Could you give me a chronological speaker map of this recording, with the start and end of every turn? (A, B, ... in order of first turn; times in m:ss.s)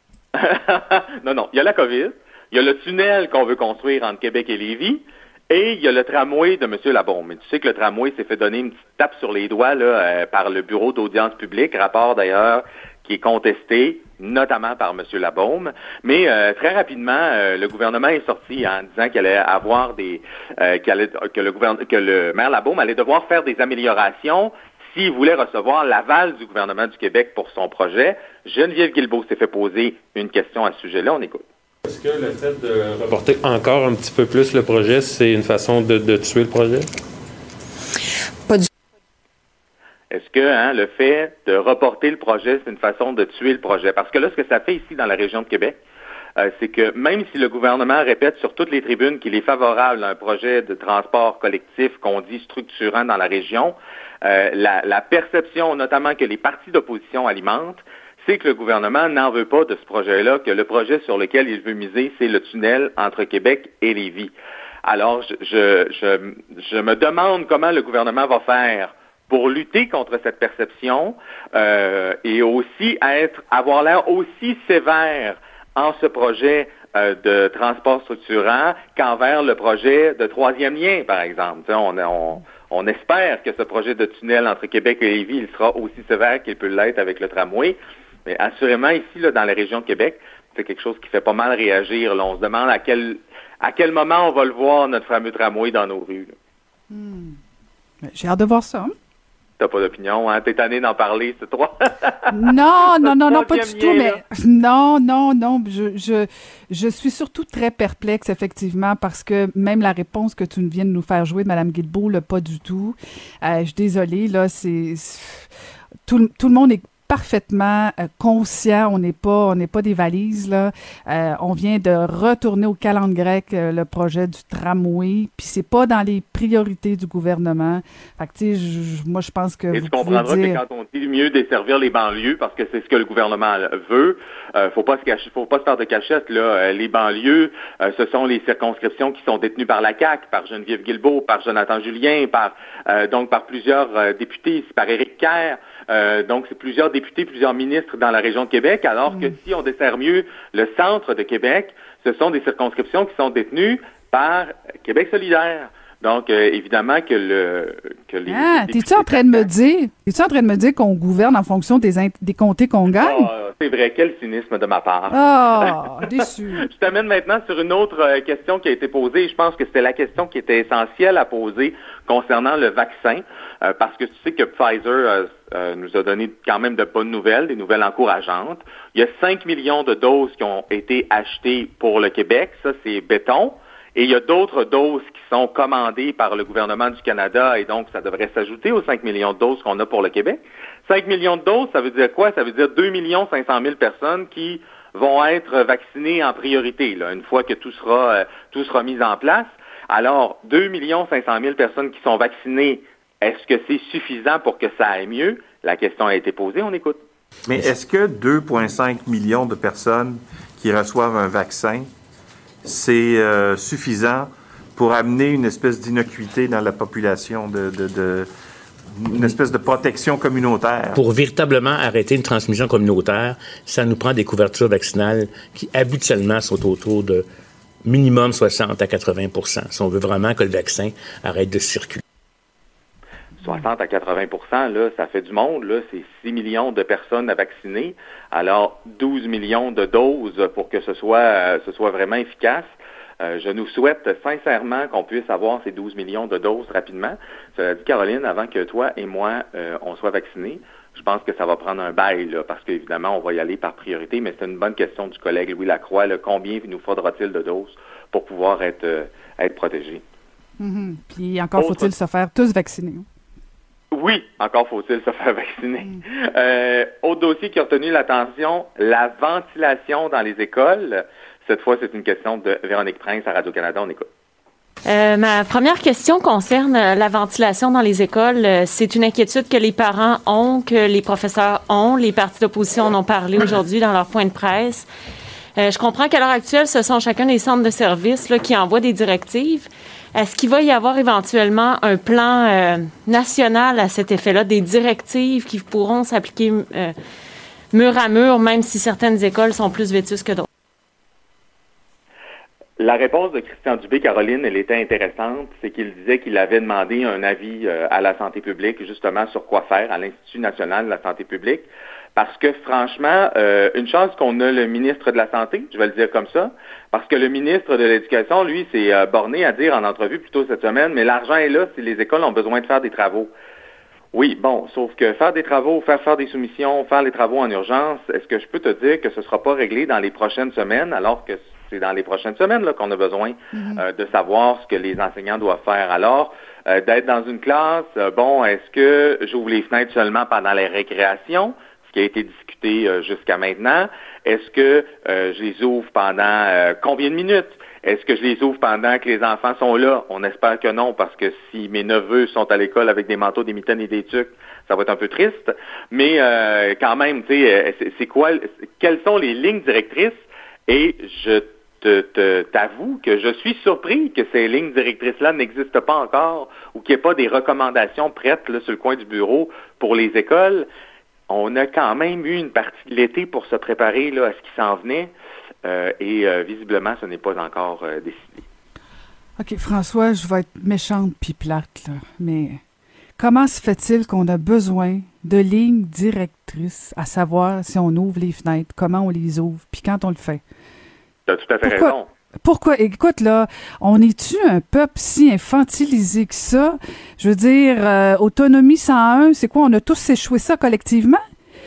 0:00.4-0:31.4 A
0:31.8-0:36.9 B
0:40.1-0:45.8 A
0:46.4-1:04.3 A
1:04.8-1:36.4 A
1:36.9-1:37.4 C
1:38.0-1:38.9 C
1:39.6-1:42.4 A
1:42.3-1:55.5 C
1:43.0-1:44.2 A
1:56.1-2:10.6 C
2:09.7-2:39.5 A
2:29.1-2:29.4 C
2:38.3-2:43.3 C
2:43.0-2:45.8 A
2:45.1-2:46.7 C
2:46.6-3:27.0 A
3:27.5-3:31.9 D
3:32.6-3:38.3 D
3:39.0-3:41.0 D
3:41.0-3:47.2 E
3:47.9-3:52.0 E
3:53.4-4:20.0 A
4:20.6-4:23.1 C
4:21.6-4:21.9 A
4:23.9-4:34.1 A
4:34.9-4:44.9 F
4:45.6-4:57.0 F
4:57.7-5:00.5 F
5:02.8-5:23.3 A
5:24.1-6:10.7 A
5:33.5-5:33.8 C
6:11.3-6:15.1 A
6:15.6-6:18.4 A
6:19.4-6:22.6 C
6:23.2-6:30.4 C
6:31.3-6:32.1 A
6:31.6-6:41.2 C